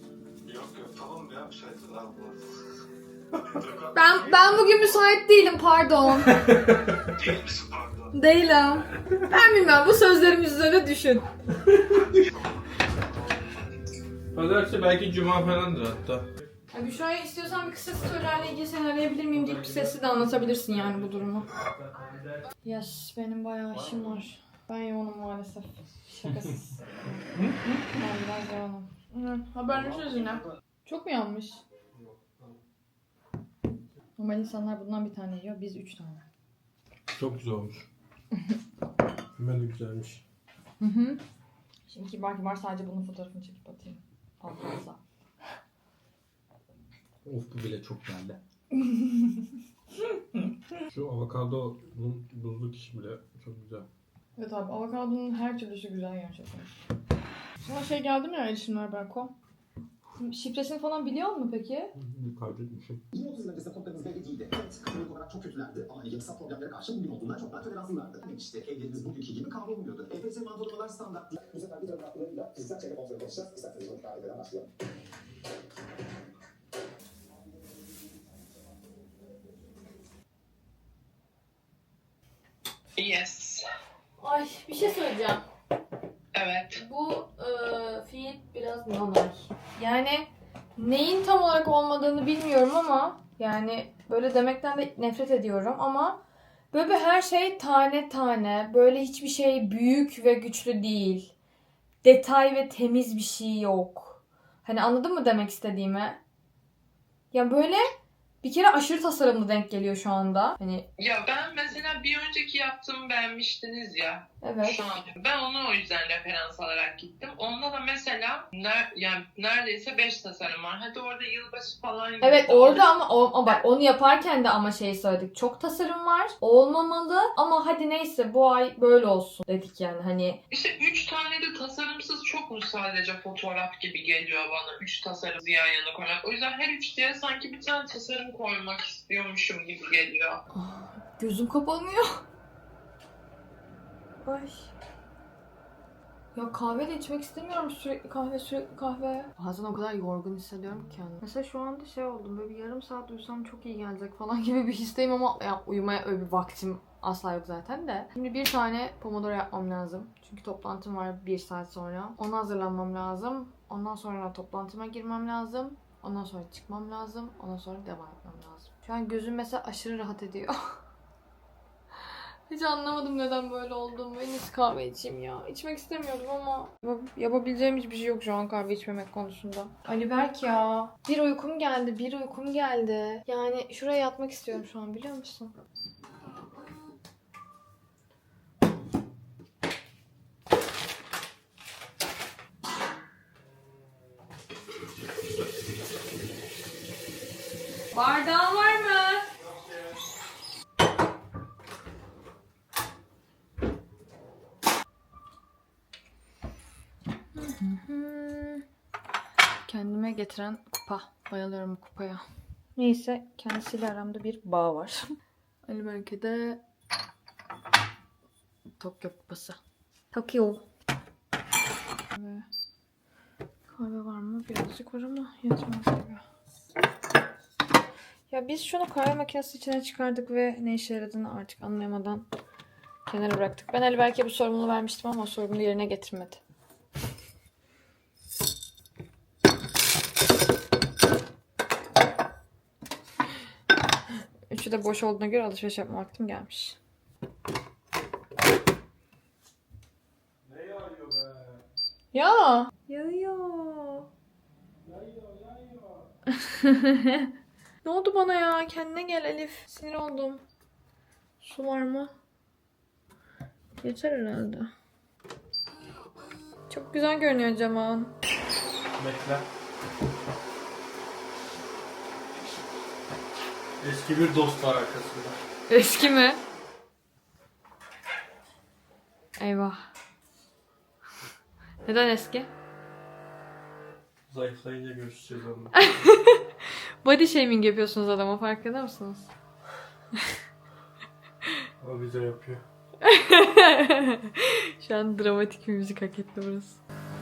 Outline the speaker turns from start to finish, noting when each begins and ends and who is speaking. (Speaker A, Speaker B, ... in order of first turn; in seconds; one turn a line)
Speaker A: 0.5-2.4
Speaker B: 3.9-6.4
Speaker C: 6.3-7.0
Speaker A: 7.3-7.9
Speaker B: 8.1-11.2
Speaker C: 11.7-12.0
Speaker C: 14.3-16.3
Speaker B: 16.7-21.5
Speaker C: 19.3-22.5
Speaker B: 22.6-26.8
Speaker C: 27.3-28.0
Speaker B: 27.9-31.6
Speaker C: 31.9-32.6
Speaker B: 34.2-36.2
Speaker C: 37.1-37.9
Speaker C: 39.4-40.2
Speaker B: 40.8-41.2
Speaker B: 41.9-45.0
Speaker C: 47.2-48.4
Speaker B: 48.7-49.4
Speaker C: 50.9-53.9
Speaker B: 54.4-56.7
Speaker B: 57.6-59.3
Speaker B: 60.2-61.9
Speaker C: 62.0-63.0
Speaker D: 63.1-74.7
Speaker E: 83.0-83.7
Speaker B: 84.2-85.4
Speaker E: 86.3-86.8
Speaker B: 86.7-96.2
Speaker B: 96.7-101.3
Speaker B: 102.0-106.2
Speaker B: 107.3-107.9
Speaker B: 108.4-110.9
Speaker E: 111.0-122.9
Speaker B: 114.4-115.0
Speaker B: 122.2-130.4
Speaker E: 130.5-140.4
Speaker B: 140.5-142.2
Speaker B: 144.2-144.7
Speaker B: 146.3-170.6
Speaker B: 172.5-185.5
Speaker C: 193.6-194.1
Speaker B: 197.9-199.3
Speaker B: 207.3-208.6
Speaker B: 209.7-212.2
Speaker B: 212.8-215.0
Speaker B: 215.7-216.6
Speaker B: 218.8-219.6
Speaker B: 220.1-220.6
Speaker B: 222.1-222.5
Speaker B: 223.7-226.2
Speaker B: 228.3-232.2
Speaker B: 233.1-236.4
Speaker B: 244.5-246.8
Speaker C: 250.4-251.6
Speaker B: 252.1-254.1
Speaker C: 254.8-256.1
Speaker B: 256.3-257.3
Speaker B: 257.8-260.4
Speaker B: 261.4-262.1
Speaker B: 263.8-264.7
Speaker B: 266.7-268.1
Speaker C: 269.0-269.5
Speaker C: 273.8-275.4
Speaker B: 275.7-276.4
Speaker B: 279.4-279.8
Speaker B: 281.9-282.5
Speaker C: 284.3-285.7
Speaker B: 285.8-286.4
Speaker B: 287.0-289.3
Speaker C: 291.8-292.6
Speaker B: 293.0-296.8